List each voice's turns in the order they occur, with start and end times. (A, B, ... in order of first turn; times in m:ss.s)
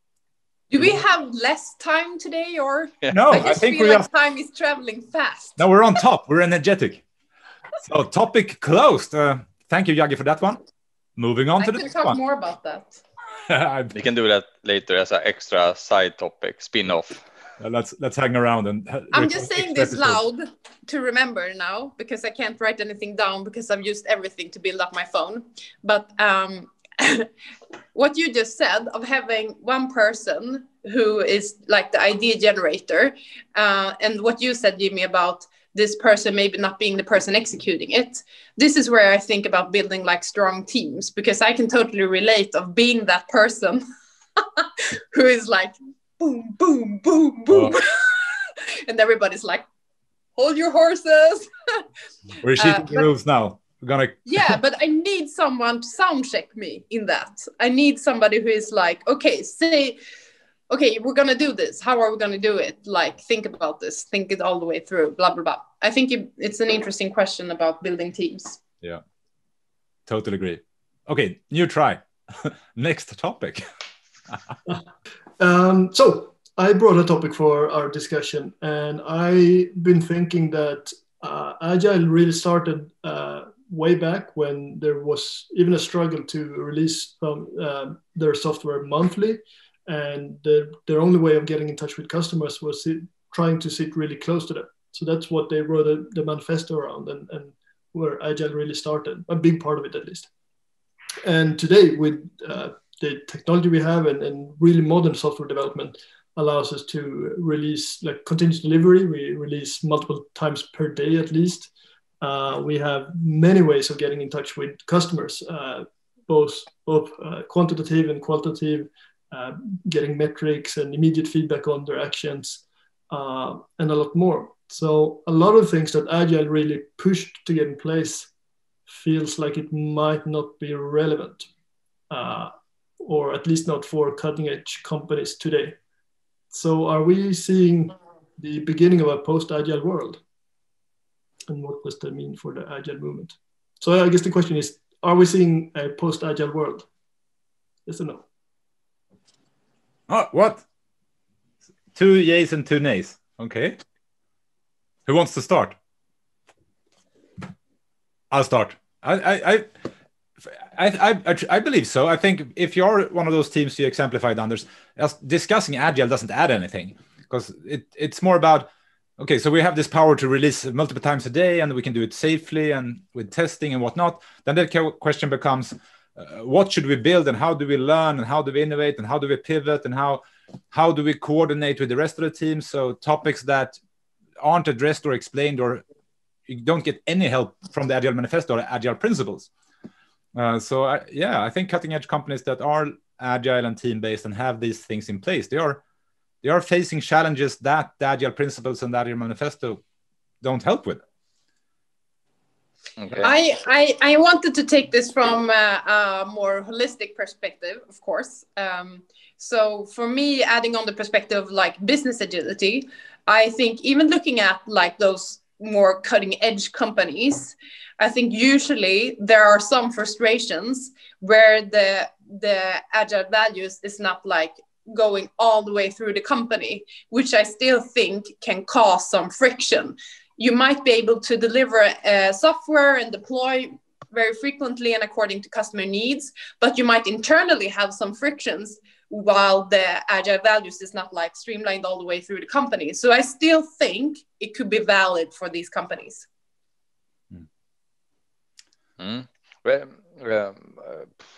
0:00.7-0:05.6 A
0:03.1-0:04.1 B
0:05.6-0:07.0 B
0:07.8-0:10.6 B
0:11.2-0:12.2 B
0:11.6-0:13.0 A
0:13.5-0:13.9 B
0:13.9-0:17.2 C
0:17.6-0:20.2 B
0:19.1-0:27.3 A
0:27.9-0:43.8 A
0:44.4-0:49.6 A
0:50.4-0:51.8 A
0:52.4-0:54.6 B
0:52.5-0:53.1 A
0:54.2-1:00.0 A
1:00.7-1:08.6 A
1:10.1-1:13.6 B
1:15.4-1:40.3 D
1:41.2-1:51.7 D
1:52.2-2:08.3 D
2:08.9-2:11.5 D
2:12.1-2:12.5 D
2:13.0-2:15.8 D
2:16.5-2:20.2 D
2:21.5-2:26.9 D
2:27.8-2:28.2 D
2:30.1-2:30.6 B
2:31.9-2:33.8 B
2:35.0-2:35.8 B
2:38.3-2:39.7 B
2:40.7-3:03.8 B
3:04.4-3:05.8 B
3:06.5-3:09.5 B
3:10.3-3:15.8 B
3:16.4-3:19.8 B
3:20.4-3:21.0 B
3:23.0-3:23.3 C
3:23.2-4:06.2 A
4:09.0-4:11.1 C